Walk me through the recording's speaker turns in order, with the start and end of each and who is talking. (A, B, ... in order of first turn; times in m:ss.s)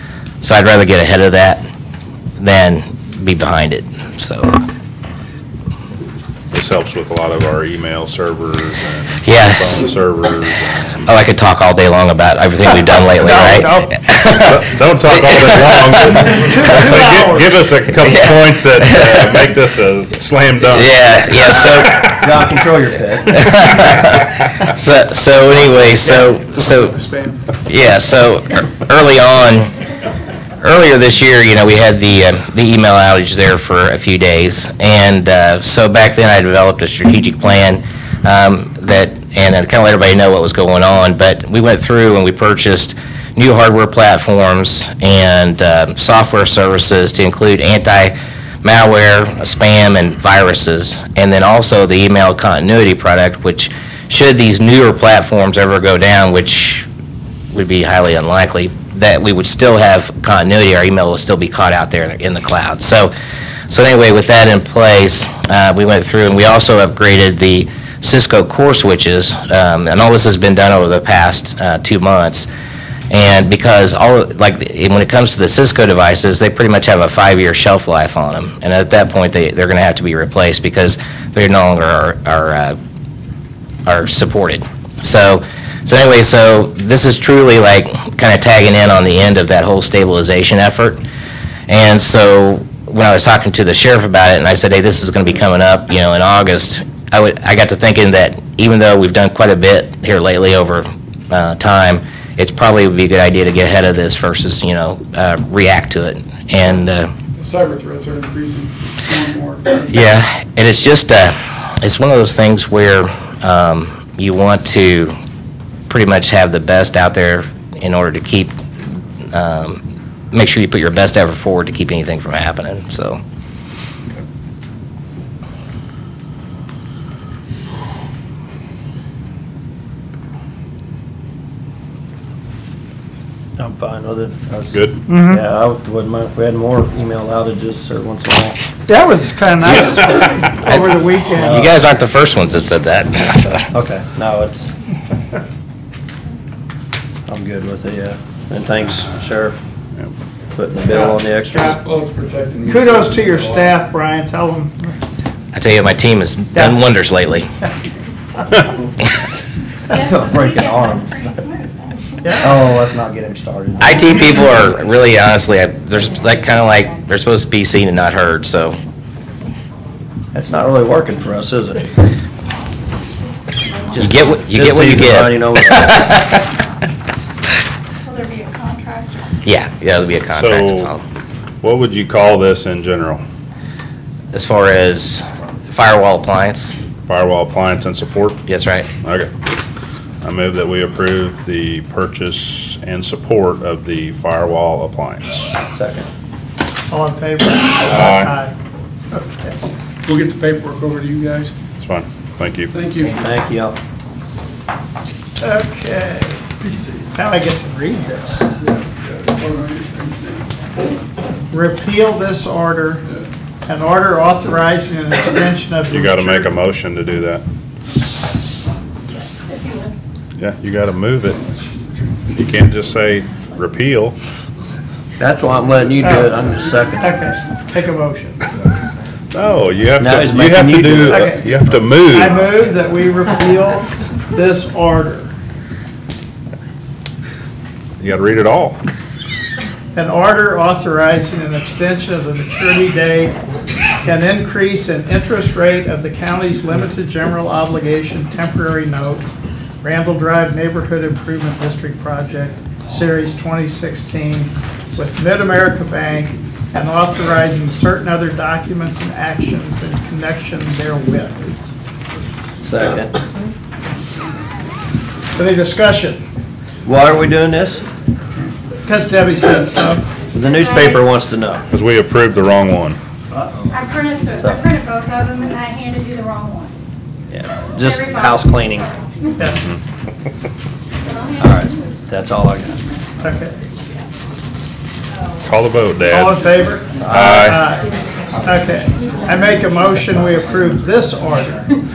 0:00.4-0:01.6 A
0:02.4-0:04.5 A
0:06.5-0:11.1 B
0:09.2-0:09.9 A
0:11.0-0:17.1 A
0:13.2-0:13.9 C
0:14.4-0:21.0 B
0:16.4-0:17.4 C
0:18.0-0:19.5 A
0:20.7-0:22.3 A
0:22.0-0:23.5 D
0:23.3-0:27.0 A
0:26.0-0:27.4 E
0:27.6-0:29.7 A
0:30.6-0:56.9 A
0:57.5-1:03.1 A
1:03.7-1:12.5 A
1:13.1-1:22.8 A
1:23.8-1:31.0 A
1:31.7-1:47.1 A
1:47.4-1:50.0 E
1:49.9-1:55.1 A
1:55.9-1:58.6 A
1:59.3-1:59.8 A
2:00.3-2:03.2 A
2:13.6-2:18.6 D
2:15.1-2:15.4 C
2:18.9-2:21.7 C
2:20.6-2:23.7 A
2:23.7-2:24.7 D
2:27.3-2:29.6 D
2:30.5-2:31.8 D
2:30.9-2:31.7 C
2:31.6-2:33.8 E
2:32.6-2:34.9 C
2:35.5-2:37.5 A
2:39.9-2:42.5 F
2:39.9-2:41.2 D
2:42.2-2:42.5 C
2:42.4-2:44.0 D
2:43.8-2:48.8 A
2:50.3-2:52.0 D
2:53.9-2:56.0 D
2:53.9-2:56.4 A
2:58.0-2:59.2 F
2:59.4-3:01.0 A
3:00.3-3:00.9 B
3:01.6-3:03.2 B
3:04.3-3:06.7 A
3:07.1-3:08.4 B
3:08.5-3:08.9 A
3:09.0-3:09.3 B
3:10.2-3:15.5 B
3:15.6-3:16.1 D
3:16.9-3:18.5 C
3:17.8-3:18.3 B
3:19.1-3:19.6 C
3:20.0-3:21.5 E
3:21.8-3:22.7 B
3:22.7-3:23.1 E
3:23.0-3:23.8 D
3:25.4-3:26.5 C
3:27.1-3:28.5 C
3:28.6-3:30.5 E
3:31.5-3:33.0 C
3:33.6-3:36.6 C
3:35.9-3:37.4 B
3:39.1-3:39.9 F
3:40.4-3:41.4 B
3:42.3-3:44.1 B
3:45.2-3:47.2 D
3:46.0-3:46.4 C
3:47.0-3:48.4 C
3:49.3-3:52.4 B
3:50.0-3:51.3 D
3:51.0-3:55.3 C
3:58.0-3:58.8 B
3:59.9-4:03.4 C
4:04.0-4:09.2 C
4:09.8-4:21.4 C
4:22.6-4:23.2 D
4:25.4-4:26.2 C
4:26.8-4:27.8 D
4:28.8-4:30.0 C
4:30.3-4:31.6 D
4:30.4-4:31.0 F
4:31.7-4:33.0 B
4:33.7-4:36.7 F
4:34.4-4:34.6 D
4:37.3-4:38.9 D
4:37.8-4:39.2 F
4:39.4-4:39.7 C
4:41.0-4:41.6 F
4:41.4-4:42.8 D
4:43.2-4:43.6 C
4:45.4-4:46.4 B
4:46.0-4:51.7 C
4:47.0-4:47.6 B
4:47.1-4:47.4 D